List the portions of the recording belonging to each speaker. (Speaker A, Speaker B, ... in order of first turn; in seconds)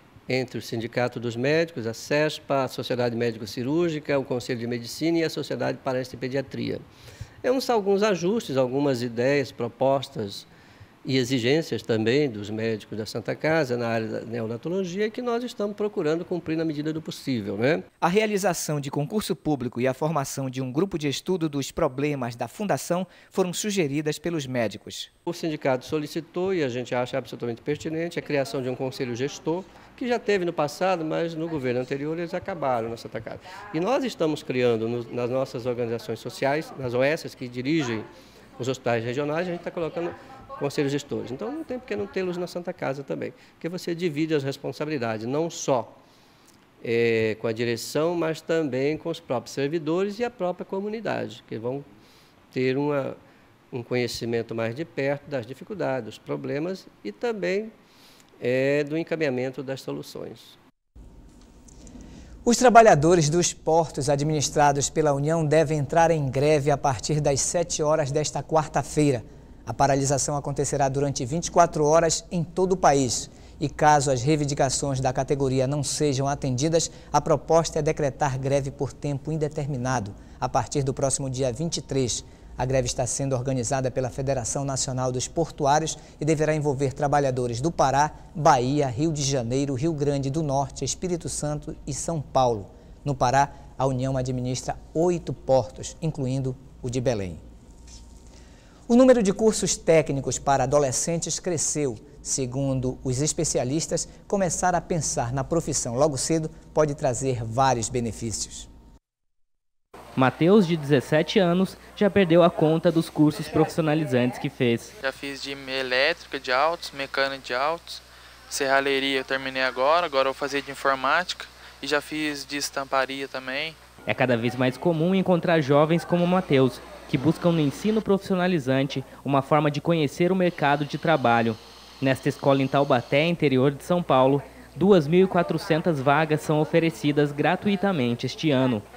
Speaker A: 0.3-6.8, 7.4-10.5, 11.0-17.9, 25.3-46.0, 46.8-51.9, 52.5-53.2, 53.7-57.7, 58.4-60.6
Speaker B: 18.0-25.1, 62.5-97.4, 98.9-108.7
Speaker C: 110.2-115.0, 124.1-138.9
Speaker D: 115.0-123.8